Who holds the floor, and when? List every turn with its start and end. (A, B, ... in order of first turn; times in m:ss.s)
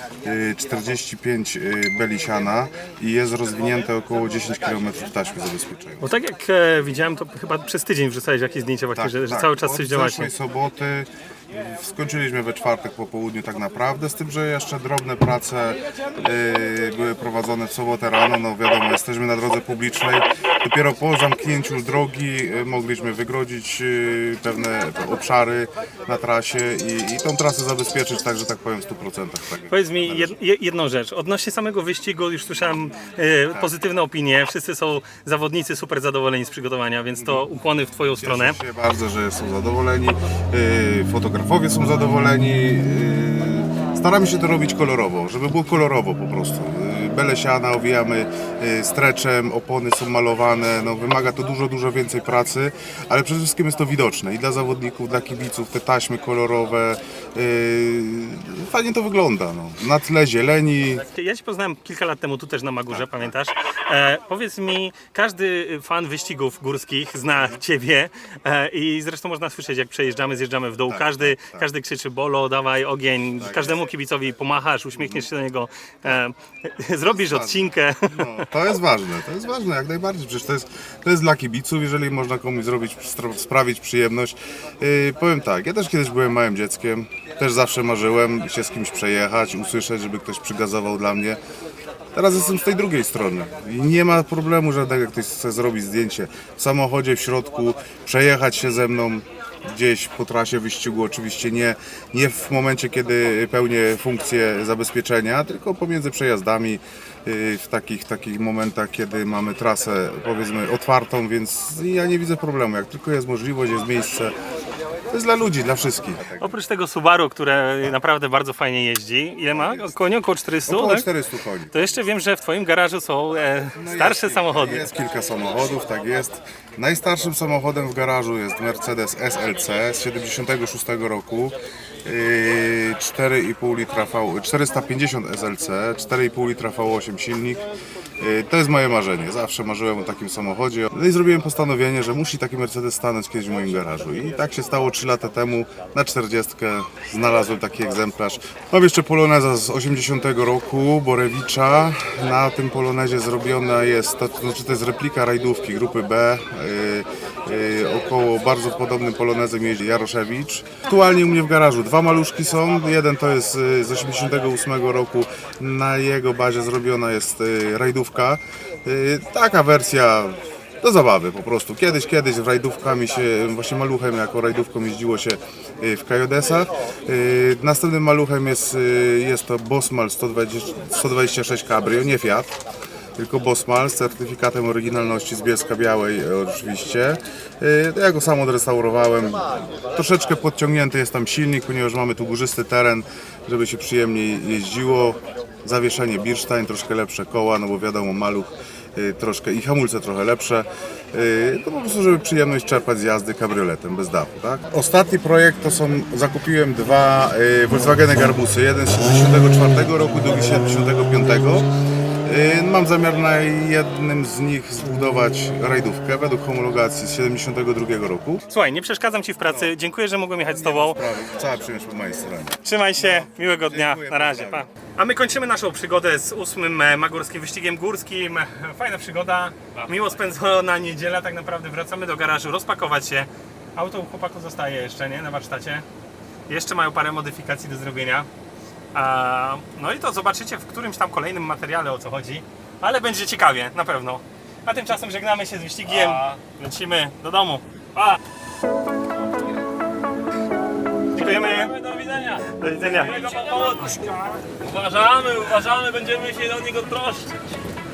0:00.2-0:06.1 A
0:06.0-0:10.3 B
0:08.9-0:30.4 A
0:29.7-0:38.6 B
0:37.2-0:37.4 A
0:38.1-1:01.0 A
1:01.1-1:18.2 B
1:02.9-1:03.3 A
1:07.3-1:07.6 A
1:10.9-1:11.7 A
1:13.2-1:13.8 A
1:14.9-1:15.3 A
1:17.1-1:31.4 A
1:32.1-1:54.3 A
1:55.1-1:56.6 A
1:56.4-2:01.1 B
1:59.5-1:59.9 A
2:00.6-2:01.8 A
2:01.7-2:04.9 B
2:03.8-2:17.6 A
2:18.2-3:02.5 A
3:03.2-3:31.7 A
3:32.2-3:38.4 A
3:38.5-3:41.0 B
3:39.4-3:39.8 A
3:40.5-3:44.6 A
3:42.6-3:55.8 B
3:56.5-3:58.3 B
3:58.9-4:07.6 B
4:11.1-4:11.7 B
4:11.7-4:12.4 C
4:12.6-4:13.2 B
4:13.0-4:13.9 C
4:14.6-4:17.4 C